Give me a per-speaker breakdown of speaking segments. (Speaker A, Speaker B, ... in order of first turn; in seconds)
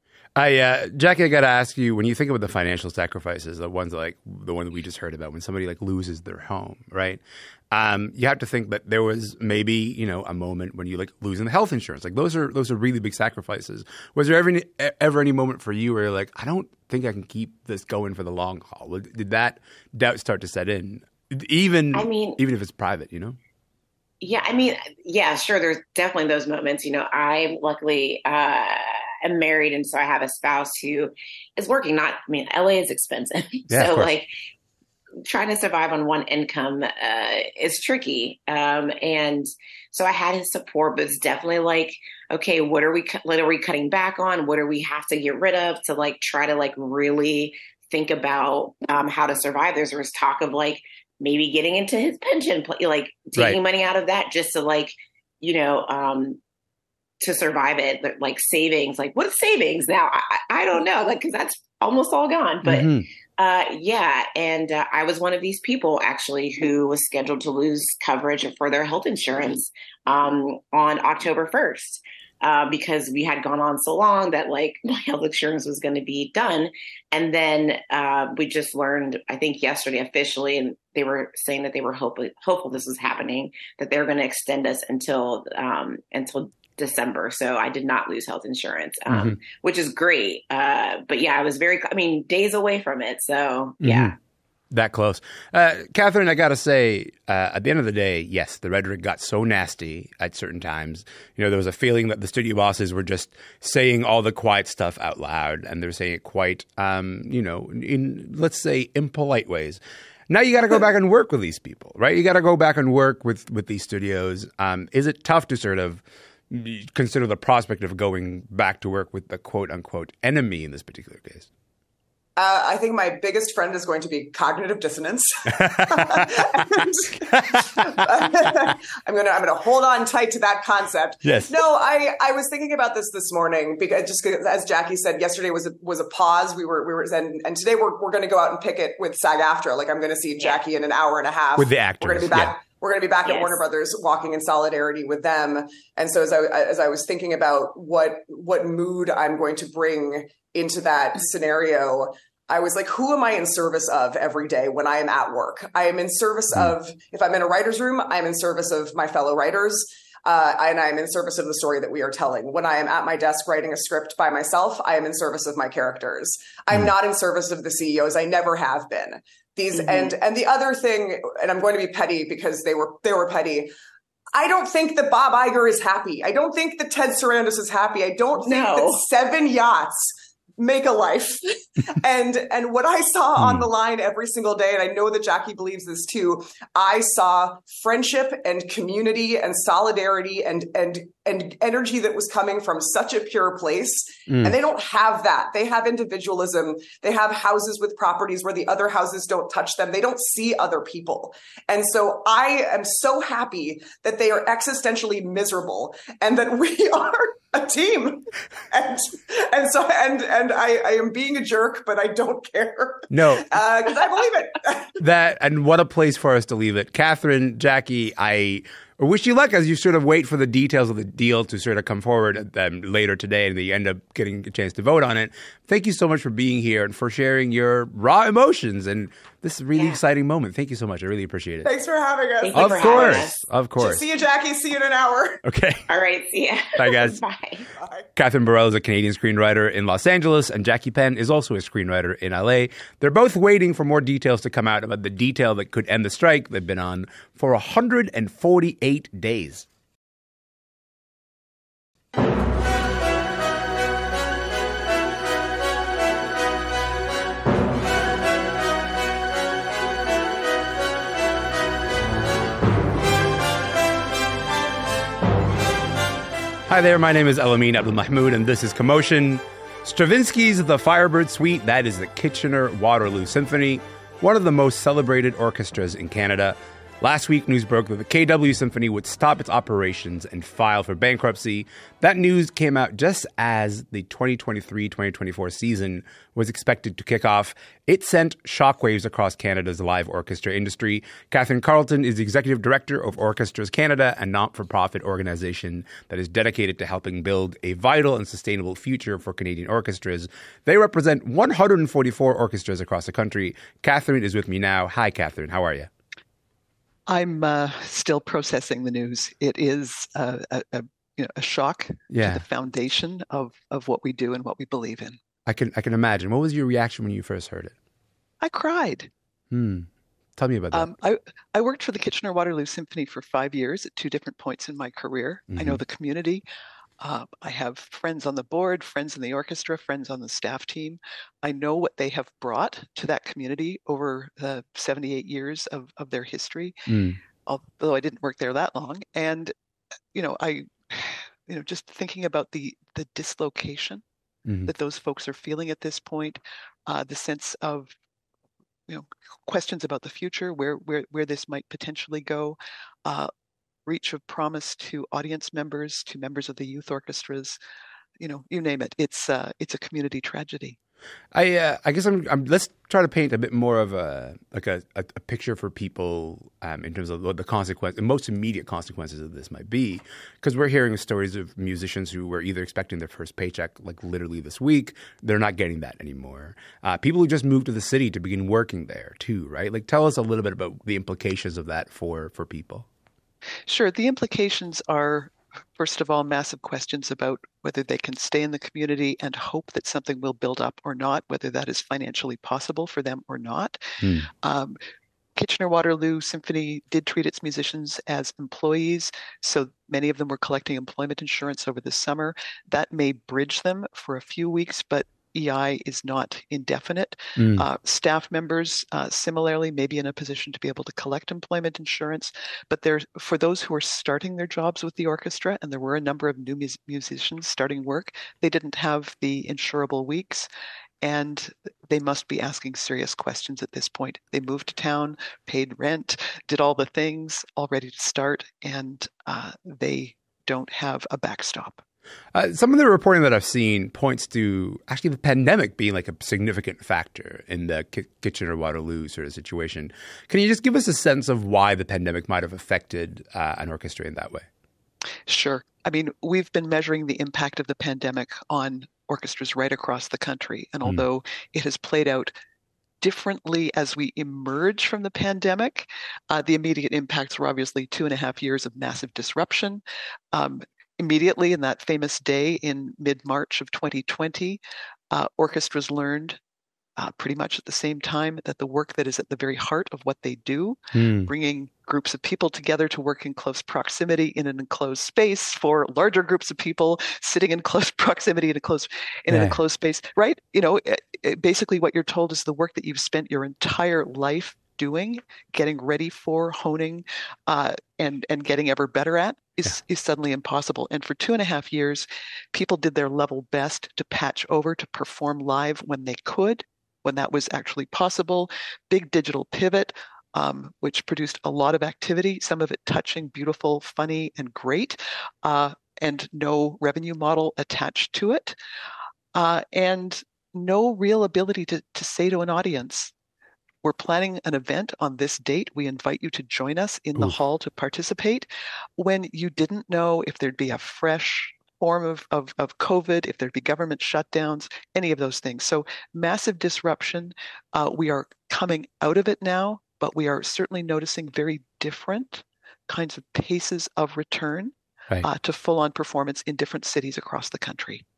Speaker A: 0.3-23.4, 33.7-34.1, 62.6-63.0, 89.1-89.4, 93.8-94.1, 94.7-121.5, 125.6-126.3, 127.3-128.0, 131.2-131.6, 141.6-142.6, 183.4-183.7, 194.3-194.5, 213.1-213.6, 215.0-231.7, 232.5-234.0, 235.4-235.8, 236.8-237.2, 238.2-249.7, 266.7-305.9, 312.1-312.4, 315.4-317.7, 319.5-320.9, 325.5-325.8, 336.9-337.2, 344.4-344.7, 361.3-382.9, 394.0-394.3, 407.4-407.6, 432.3-444.5, 470.9-471.3, 479.3-479.6
Speaker B: 21.9-22.4, 24.2-34.3, 35.2-56.4, 57.2-94.1, 143.2-143.6, 169.7-170.1, 178.4-179.1, 232.4-233.4, 235.9-237.7
Speaker C: 122.3-173.7, 174.3-215.0, 231.6-235.4, 237.7-238.1
Speaker D: 307.1-315.2, 318.4-319.1, 320.7-326.4, 327.0-336.9, 337.4-339.5, 340.1-344.0, 344.6-347.9, 348.9-353.3, 353.9-357.6, 358.2-360.8, 383.7-394.8, 395.4-420.5, 421.0-431.8, 445.3-452.3, 453.0-464.6, 465.1-466.4, 467.0-508.6, 509.3-513.1, 513.8-538.0